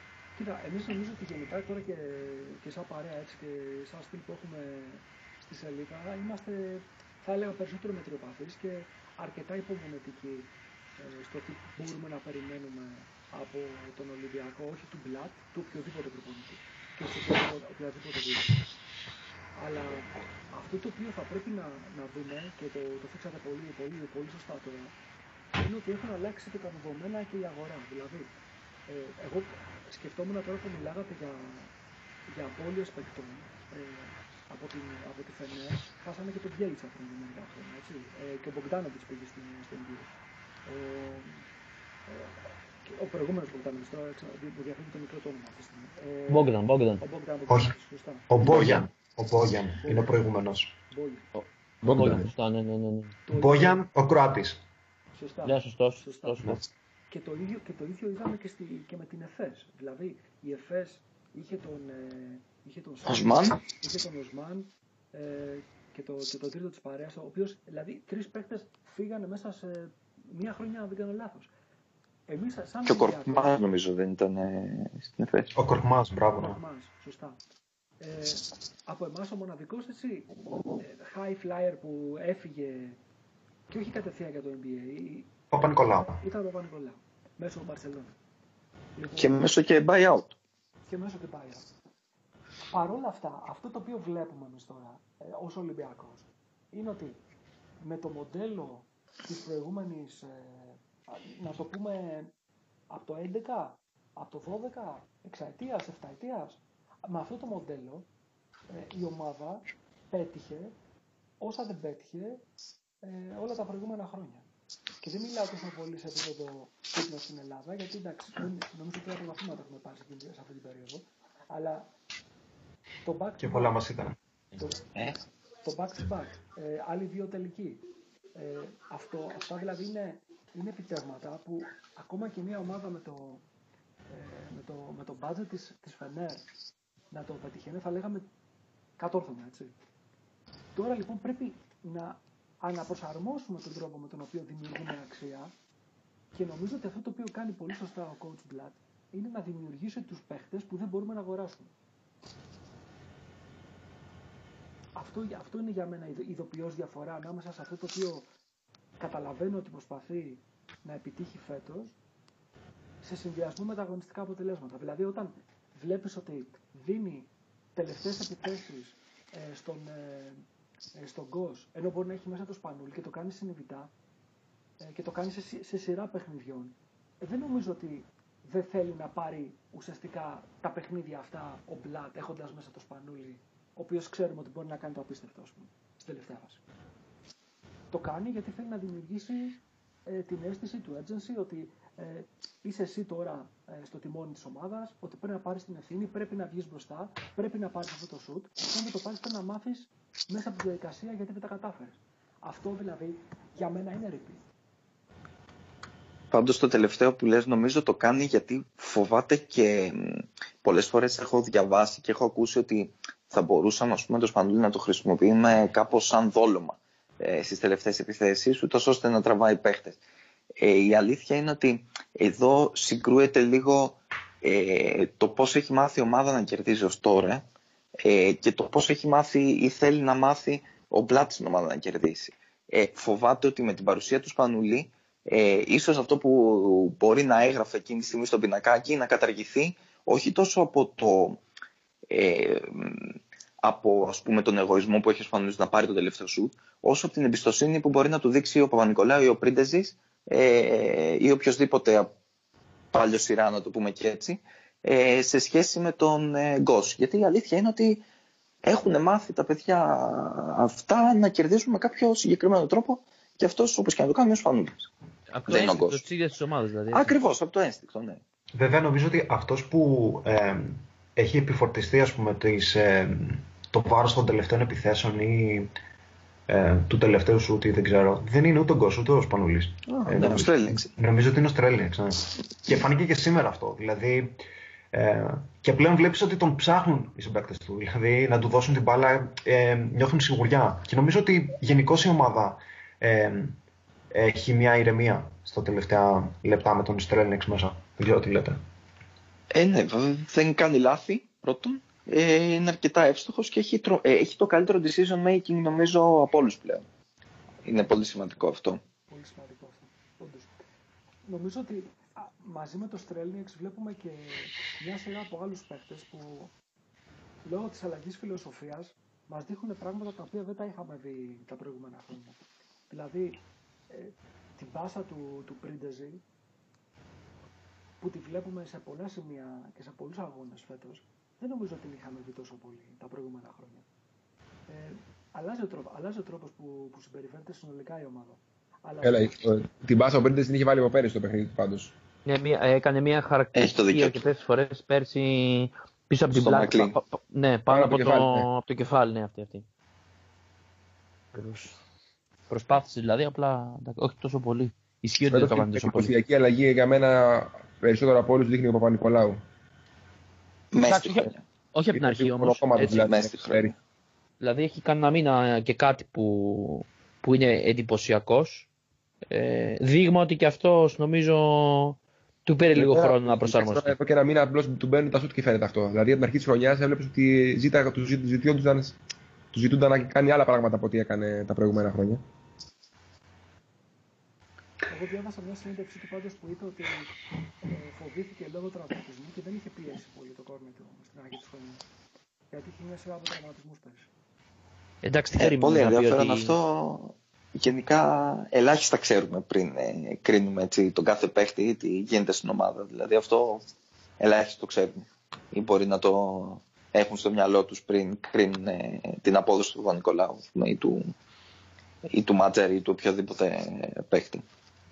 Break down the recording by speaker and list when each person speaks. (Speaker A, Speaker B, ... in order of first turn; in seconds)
Speaker A: 0.3-18.6, 19.6-24.9, 25.6-28.3, 28.9-31.7, 32.3-40.1, 40.7-41.5, 42.1-48.3, 49.8-50.3, 50.9-51.3, 53.2-53.8, 55.1-71.5, 72.3-73.6, 76.3-77.4, 78.0-83.0, 83.7-88.2, 89.0-89.5, 90.9-91.6, 92.7-97.2, 97.8-102.3, 102.9-108.1, 108.7-110.8, 111.4-112.4, 113.0-114.5, 115.0-121.9, 123.0-123.8, 124.6-124.8, 125.6-127.8, 128.3-133.4, 134.1-136.5, 137.1-138.3, 139.0-139.7, 140.7-145.5, 146.3-151.7, 154.9-158.3, 159.0-162.0, 163.0-170.4, 170.9-173.9, 174.8-186.6, 187.9-204.4, 309.1-310.5, 311.2-316.5, 317.4-326.2, 328.0-333.9, 334.7-339.3, 384.9-387.1, 387.7-391.8, 392.5-394.1
Speaker B: 46.3-47.0, 51.4-53.1, 55.4-56.6, 265.3-267.2, 342.2-349.6, 351.3-351.8, 352.5-356.1, 360.8-363.1, 364.4-368.7, 369.3-373.9, 395.0-396.6
Speaker C: 48.3-50.7, 53.3-54.6, 75.5-76.6, 85.5-86.2, 123.4-124.2, 268.5-275.7, 276.5-284.4, 284.9-293.6, 294.1-298.6
Speaker D: 51.8-52.3, 339.0-341.9, 347.7-348.5, 355.3-359.4, 361.9-363.7, 372.7-379.0, 379.5-382.2
Speaker E: 63.0-63.6, 72.8-75.5, 89.1-90.4, 206.3-220.0, 220.6-227.4, 228.0-241.4, 242.1-252.1, 252.9-258.0, 258.6-264.9, 265.5-266.0, 266.9-268.2, 279.9-280.9, 299.5-306.8, 307.6-308.8, 343.5-344.3, 346.3-347.0, 360.7-361.4, 362.9-363.7, 395.4-403.6, 404.2-411.1, 412.0-414.4